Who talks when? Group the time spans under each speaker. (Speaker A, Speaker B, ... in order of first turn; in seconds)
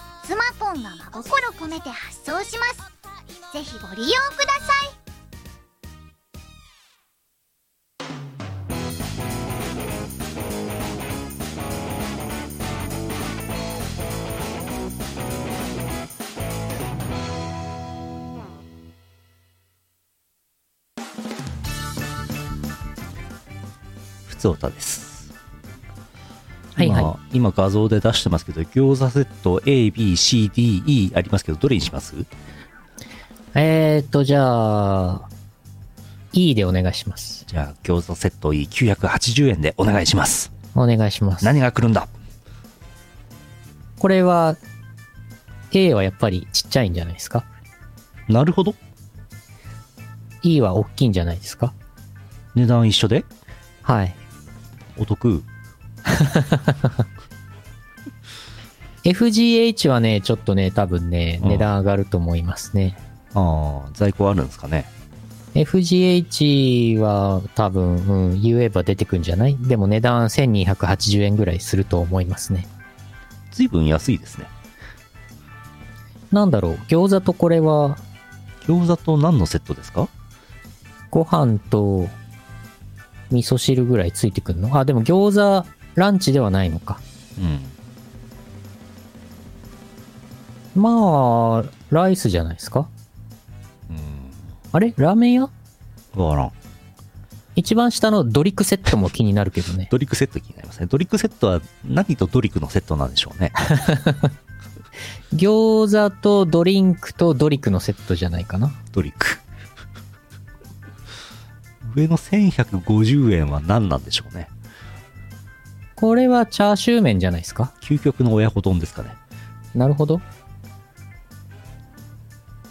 Speaker A: 0.2-2.9, 3.5-5.0
Speaker B: 24.3-25.3, 26.8-32.3, 37.5-40.5, 41.4-42.1, 48.3-48.8, 52.5-53.3, 55.0-55.5, 61.4-61.7, 63.3-64.9, 73.5-74.5, 78.6-80.1, 87.4-87.7, 93.9-94.4, 96.1-96.5, 99.9-103.6, 108.9-109.4, 111.8-114.5, 117.8-119.2
Speaker C: 26.8-27.1, 33.5-35.3, 36.3-37.4, 40.7-41.5, 44.0-44.6, 45.7-47.5, 50.4-51.7, 53.8-54.2, 56.1-57.0, 59.0-63.0, 65.5-72.7, 76.3-78.0, 81.1-82.2, 83.3-87.0, 90.7-92.9, 94.7-95.5, 97.5-99.9, 103.7-104.3, 105.3-108.8, 116.0-117.7, 119.7-120.2